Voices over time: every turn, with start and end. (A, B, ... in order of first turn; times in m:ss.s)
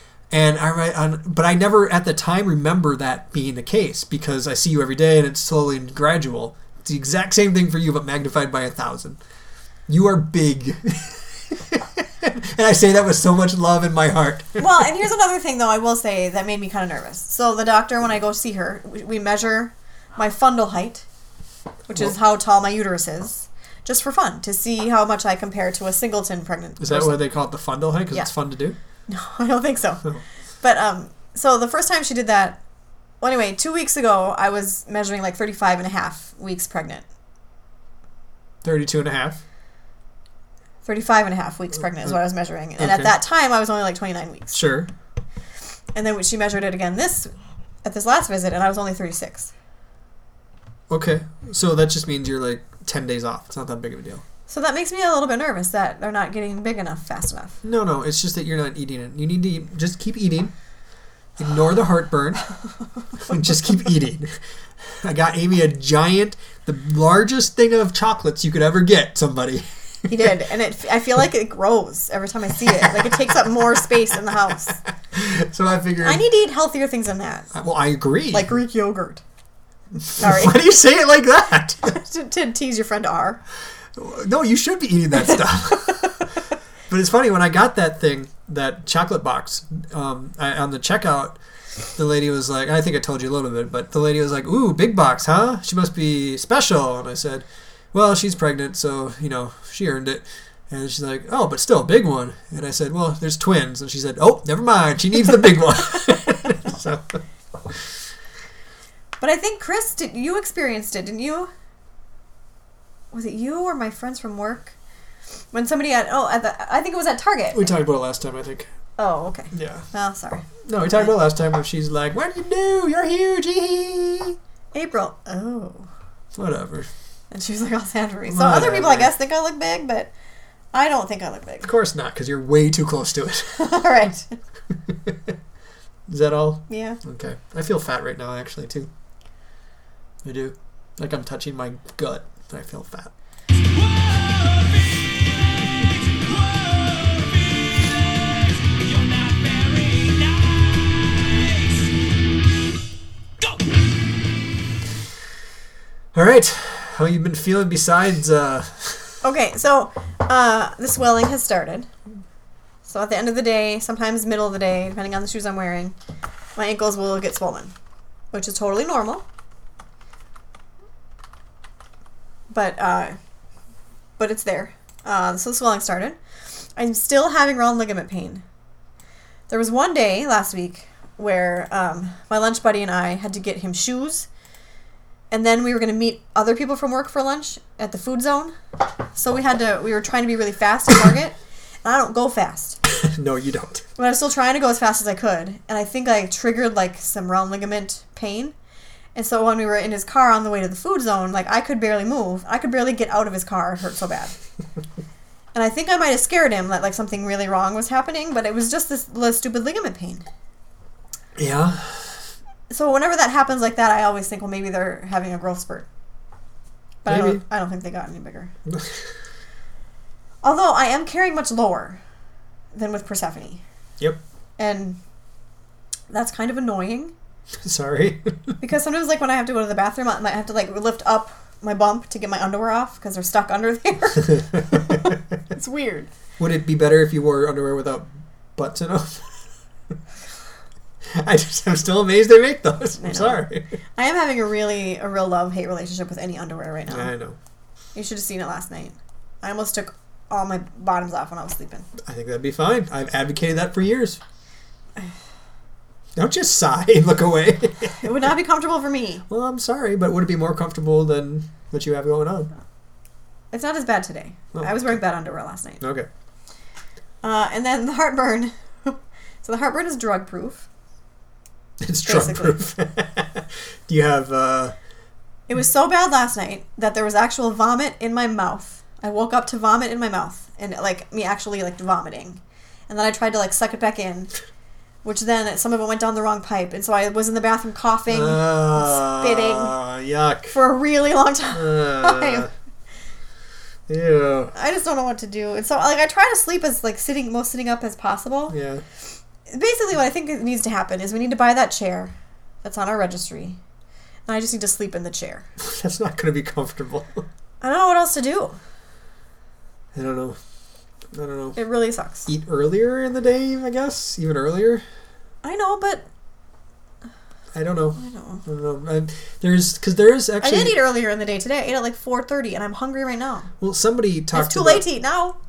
0:00.3-0:09.2 A
0:09.9-0:14.7 A
0:14.6-0:21.0 B
0:21.9-0:27.3 B
0:26.8-0:28.8 A
0:29.1-0:30.0 B
0:30.6-0:32.6 B
0:33.2-0:37.0 B
0:38.6-0:39.4 A
0:40.8-0:44.6 B
0:42.8-0:43.1 A
0:44.5-0:44.9 A
0:45.9-0:47.3 B
0:47.8-0:49.5 B
0:50.9-0:54.2 A
0:54.5-0:57.6 B
0:57.6-1:00.5 A
1:01.4-1:02.5 A
1:03.2-1:04.3 A
1:04.9-1:09.6 A
1:10.1-1:14.8 B
1:15.1-1:16.2 A
1:16.0-1:17.5 B
1:17.5-1:18.5 A
1:18.3-1:19.2 B
1:20.0-1:22.0 A
1:20.2-1:20.7 B
1:21.9-1:23.4 B
1:23.9-1:26.2 A
1:26.9-1:31.4 A
1:31.9-1:47.2 A
1:49.2-1:51.5 B
1:53.1-1:54.7 B
1:55.5-1:57.7 B
1:57.5-1:58.7 A
1:59.0-2:00.6 B
1:59.5-1:59.8 A
2:00.6-2:04.4 A
2:04.7-2:05.9 B
2:06.3-2:06.9 A
2:07.3-2:10.1 B
2:08.3-2:09.1 A
2:10.7-2:11.7 B
2:11.6-2:13.7 A
2:13.5-2:14.4 B
2:14.9-2:15.3 A
2:16.1-2:18.9 A
2:16.7-2:17.0 B
2:20.2-2:23.1 A
2:23.6-2:31.9 C
2:36.1-2:39.2 A
2:39.2-2:41.9 B
2:42.8-2:45.9 B
2:46.6-2:47.7 B
2:48.3-2:49.2 B
2:52.5-2:53.2 B
2:54.2-2:56.2 B
2:56.8-2:58.4 B
2:59.5-3:04.3 B
3:05.3-3:08.5 B
3:09.1-3:12.8 B
3:13.0-3:13.8 A
3:14.0-3:18.5 B
3:19.1-3:24.3 B
3:25.5-3:30.2 B
3:31.4-3:32.2 A
3:32.7-3:35.9 B
3:37.0-3:38.5 B
3:37.0-3:37.4 A
3:38.7-3:39.0 A
3:40.4-3:42.0 B
3:42.7-3:43.6 B
3:44.6-3:45.0 B
3:46.1-3:47.1 B
3:47.6-3:48.6 A
3:48.6-3:56.1 B
3:54.4-3:55.1 A
3:56.4-3:59.4 A
4:01.1-4:03.6 A
4:03.0-4:07.1 B
4:06.9-4:07.4 A
4:07.9-4:11.9 B
4:12.0-4:14.2 A
4:16.2-4:18.0 A
4:18.0-4:19.2 B
4:19.3-4:22.5 A
4:23.5-4:25.8 B
4:24.5-4:25.0 A
4:25.8-4:26.1 A
4:27.2-4:30.7 B
4:31.8-4:34.7 A
4:32.0-4:32.6 B
4:35.5-4:44.3 B
4:45.0-4:49.7 B
4:48.1-4:50.6 A
4:50.5-4:52.5 B
4:51.5-4:52.5 A
4:53.9-4:54.5 A
4:54.5-4:58.5 B
4:58.5-4:58.8 A
4:59.5-5:02.1 B
5:02.6-5:03.6 B
5:04.3-5:05.4 B
5:05.6-5:07.2 A
5:07.6-5:08.6 B
5:09.9-5:10.4 A
5:11.1-5:11.6 A
5:11.6-5:12.3 B
5:12.2-5:14.8 A
5:15.4-5:16.0 B
5:17.5-5:20.8 A
5:18.0-5:18.4 B
5:20.4-5:23.5 B
5:23.6-5:24.9 A
5:24.3-5:25.4 B